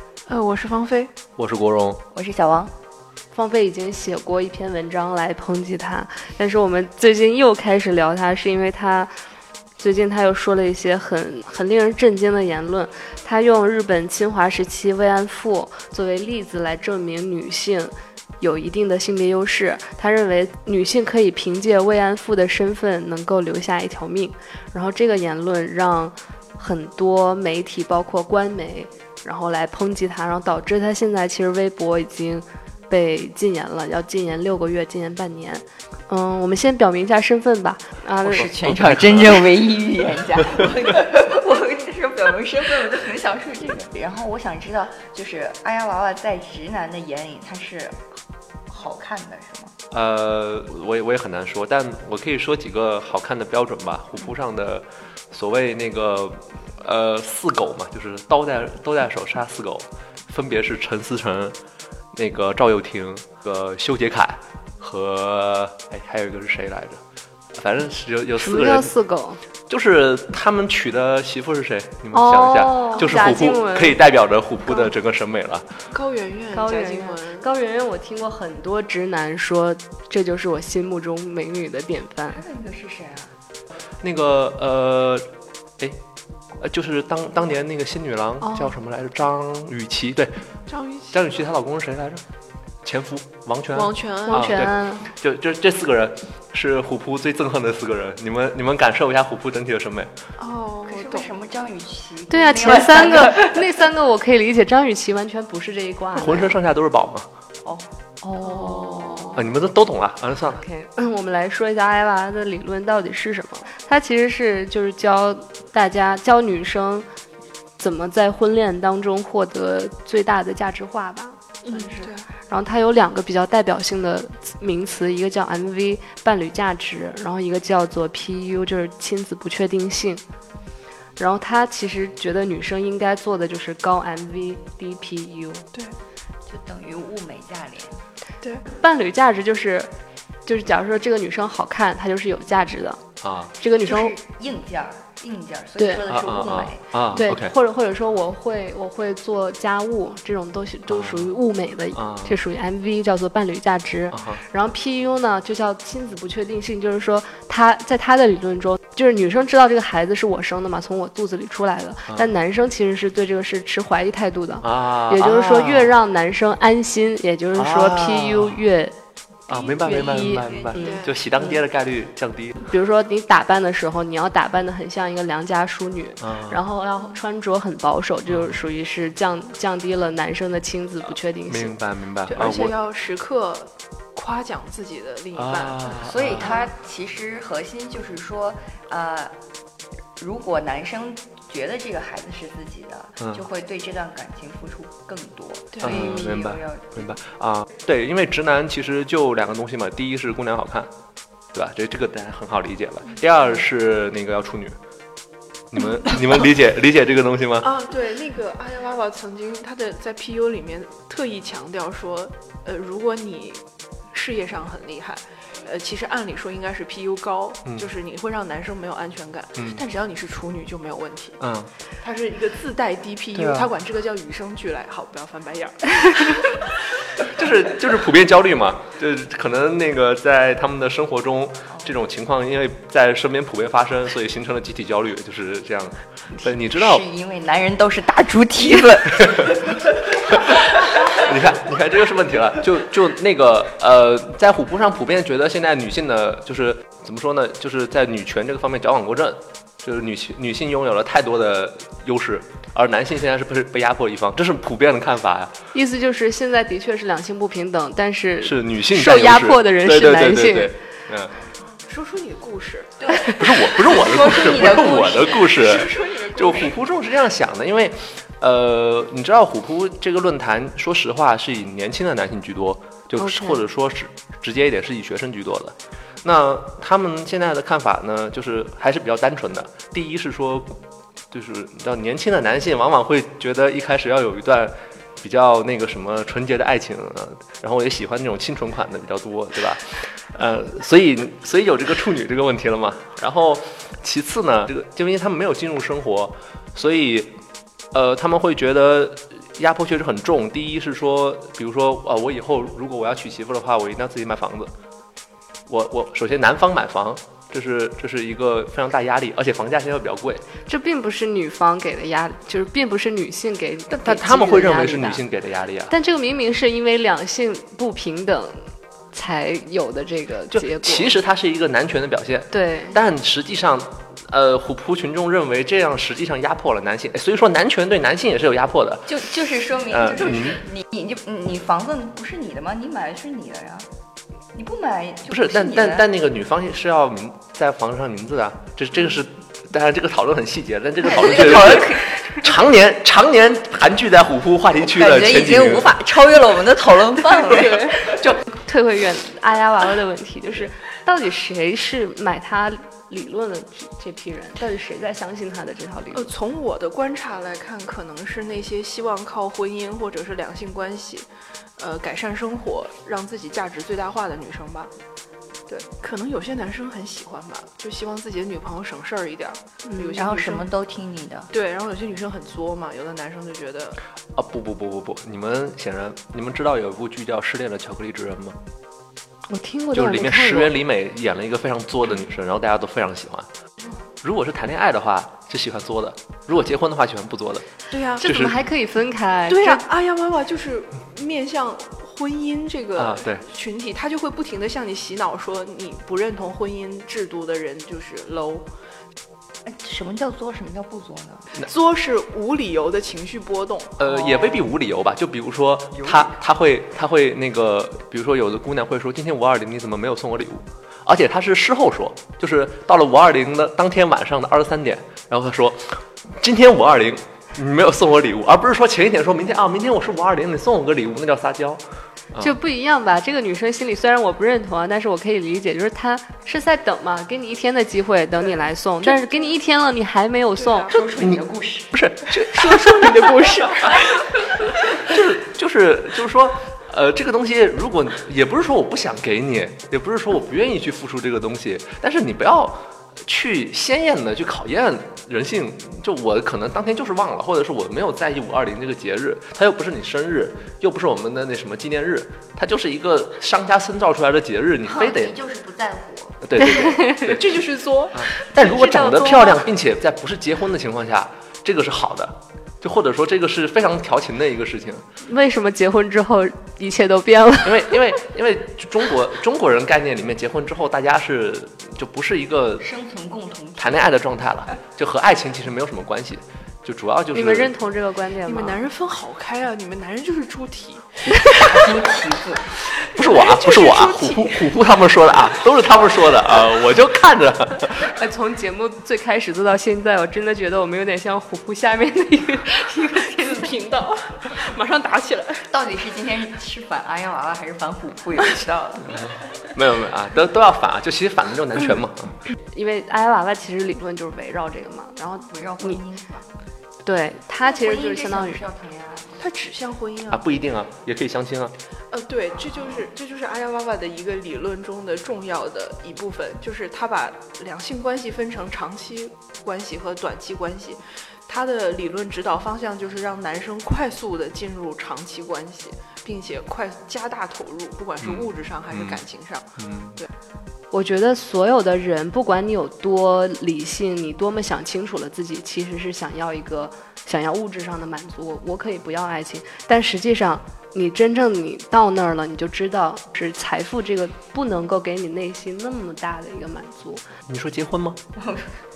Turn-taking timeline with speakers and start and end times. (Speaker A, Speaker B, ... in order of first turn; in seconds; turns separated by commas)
Speaker A: 0.3-1.1, Speaker B: 1.4-2.0, Speaker C: 2.1-2.7, Speaker D: 3.3-9.1, Speaker D: 9.8-38.5, Speaker C: 38.2-48.0, Speaker B: 38.3-39.6, Speaker C: 48.7-49.7, Speaker B: 49.9-61.6, Speaker B: 62.1-67.0, Speaker B: 67.5-68.9, Speaker D: 68.4-69.4, Speaker B: 69.7-75.7, Speaker D: 72.1-74.0, Speaker A: 75.9-77.5, Speaker D: 76.5-82.4, Speaker C: 82.3-83.3, Speaker B: 84.0-85.3, Speaker B: 86.6-90.4, Speaker D: 88.4-88.7, Speaker A: 90.7-91.3, Speaker B: 91.1-92.2, Speaker B: 92.8-100.1, Speaker A: 93.7-94.7, Speaker D: 94.3-95.1, Speaker A: 100.4-101.3, Speaker C: 100.8-103.8, Speaker D: 102.3-106.6, Speaker B: 106.1-107.3, Speaker D: 108.2-109.4, Speaker A: 108.5-109.1, Speaker B: 109.3-110.6, Speaker D: 110.6-117.1, Speaker D: 117.8-130.2, Speaker A: 121.7-122.3, Speaker D: 131.2-135.7, Speaker C: 136.5-138.0, Speaker D: 138.7-139.9, Speaker D: 140.4-143.0, Speaker B: 143.2-143.5, Speaker D: 143.6-144.2, Speaker C: 143.8-147.2, Speaker D: 145.8-146.0, Speaker B: 146.1-147.5, Speaker D: 147.1-168.9, Speaker B: 150.9-151.3, Speaker B: 151.9-152.4, Speaker B: 154.1-154.4, Speaker B: 164.6-165.9, Speaker B: 167.5-168.6, Speaker B: 169.5-172.6, Speaker C: 169.5-171.0, Speaker D: 169.8-171.6, Speaker A: 170.8-171.2, Speaker D: 172.7-181.7, Speaker B: 176.2-176.6, Speaker B: 178.3-178.6, Speaker B: 181.5-182.8, Speaker A: 182.3-186.6, Speaker B: 185.3-186.6, Speaker C: 186.0-189.4, Speaker C: 190.2-197.1, Speaker B: 195.8-200.9, Speaker D: 195.9-196.3, Speaker B: 201.5-204.8, Speaker B: 205.7-207.7, Speaker A: 207.6-221.4, Speaker B: 221.4-221.7, Speaker A: 222.0-226.7, Speaker B: 223.3-223.7, Speaker B: 227.2-237.0, Speaker C: 236.4-241.2, Speaker B: 240.3-255.5, Speaker D: 255.7-260.7, Speaker B: 258.4-261.4, Speaker A: 261.9-263.4, Speaker C: 263.0-265.6, Speaker B: 263.4-297.3, Speaker A: 264.3-266.7, Speaker D: 273.2-273.6, Speaker B: 297.9-304.7, Speaker B: 305.7-310.4, Speaker D: 310.6-315.2, Speaker B: 313.9-315.9, Speaker D: 315.9-321.1, Speaker B: 320.5-330.6, Speaker D: 322.5-322.9, Speaker C: 329.1-333.9, Speaker C: 334.5-336.1, Speaker B: 335.3-346.0, Speaker C: 341.0-342.4, Speaker C: 344.8-348.4, Speaker A: 347.4-348.0, Speaker D: 348.5-356.3, Speaker A: 356.1-364.9, Speaker A: 365.7-370.7, Speaker D: 369.8-370.2, Speaker C: 370.1-371.5, Speaker A: 371.5-374.0, Speaker B: 374.3-378.6, Speaker D: 379.5-380.7, Speaker B: 379.9-383.5, Speaker B: 384.2-387.7, Speaker A: 387.9-388.3, Speaker D: 388.2-389.9, Speaker B: 388.2-388.6, Speaker A: 389.5-398.6, Speaker B: 393.0-393.4, Speaker C: 399.6-401.5, Speaker A: 401.6-404.0, Speaker B: 404.0-421.8, Speaker C: 404.1-404.5, Speaker C: 405.9-406.3, Speaker D: 422.4-431.0, Speaker A: 430.6-431.0, Speaker C: 430.9-432.0, Speaker B: 431.2-433.5, Speaker A: 432.4-434.6, Speaker B: 435.0-455.4, Speaker C: 454.8-457.0, Speaker B: 456.4-457.6, Speaker D: 456.6-457.4, Speaker A: 456.9-459.6, Speaker B: 458.1-465.0, Speaker D: 465.2-468.0, Speaker B: 467.6-472.9, Speaker C: 472.8-474.1, Speaker B: 473.8-477.8, Speaker D: 477.3-478.8, Speaker A: 478.4-481.3, Speaker C: 481.5-482.8, Speaker A: 482.9-484.8, Speaker B: 483.0-488.1, Speaker D: 488.0-493.6, Speaker A: 493.0-495.7, Speaker C: 495.7-499.3, Speaker B: 499.2-502.4, Speaker D: 502.7-506.0, Speaker C: 505.5-506.5, Speaker D: 507.0-508.6, Speaker C: 507.6-509.4, Speaker A: 509.4-510.5, Speaker B: 510.3-511.7, Speaker A: 512.1-530.3, Speaker B: 528.2-529.2, Speaker B: 529.8-530.2, Speaker D: 530.9-547.2, Speaker B: 547.5-548.2, Speaker C: 548.4-548.7